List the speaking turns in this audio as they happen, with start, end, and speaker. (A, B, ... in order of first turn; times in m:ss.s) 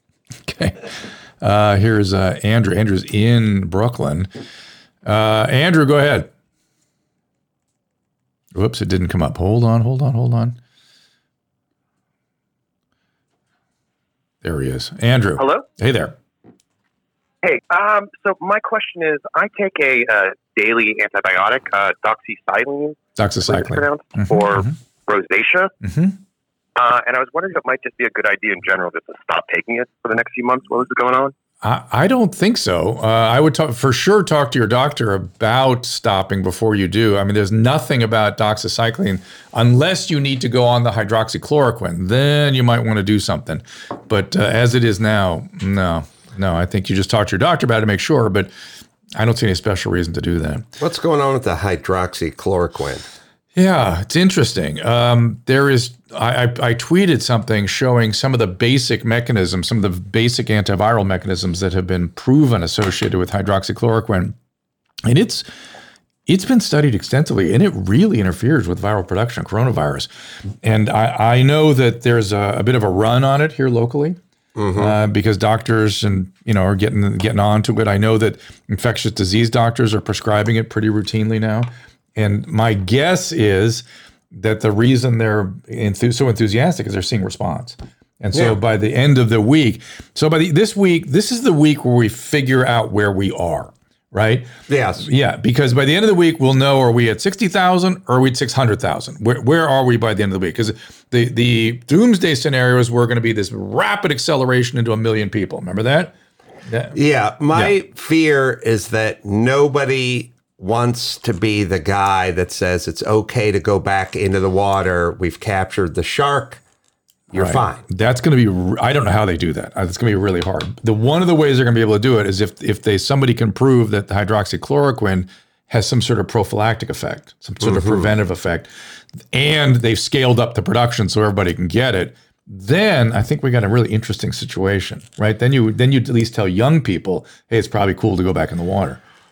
0:00.4-0:04.3 A
0:05.0-0:06.3 A
0:08.5-0:10.6 A
0:14.4-0:16.1 A
0:15.4-0:15.6 B
0:17.4-0:25.7 B
0:23.2-0:24.7 A
0:25.8-0:26.2 A
0:26.8-0:31.3 B
0:31.6-0:48.5 A
0:49.2-0:50.6 A
0:50.8-0:53.0 C
0:53.5-1:04.3 A
1:05.0-1:05.4 A
1:06.3-1:10.1 A
1:10.6-1:14.2 A
1:14.6-1:15.0 C
1:14.8-1:34.5 A
1:34.7-1:35.1 C
1:35.0-1:46.1 A
1:46.7-1:47.0 A
1:46.9-1:56.6 C
1:57.3-1:57.8 C
1:57.4-2:08.7 A
2:07.6-2:08.1 C
2:09.3-2:19.0 A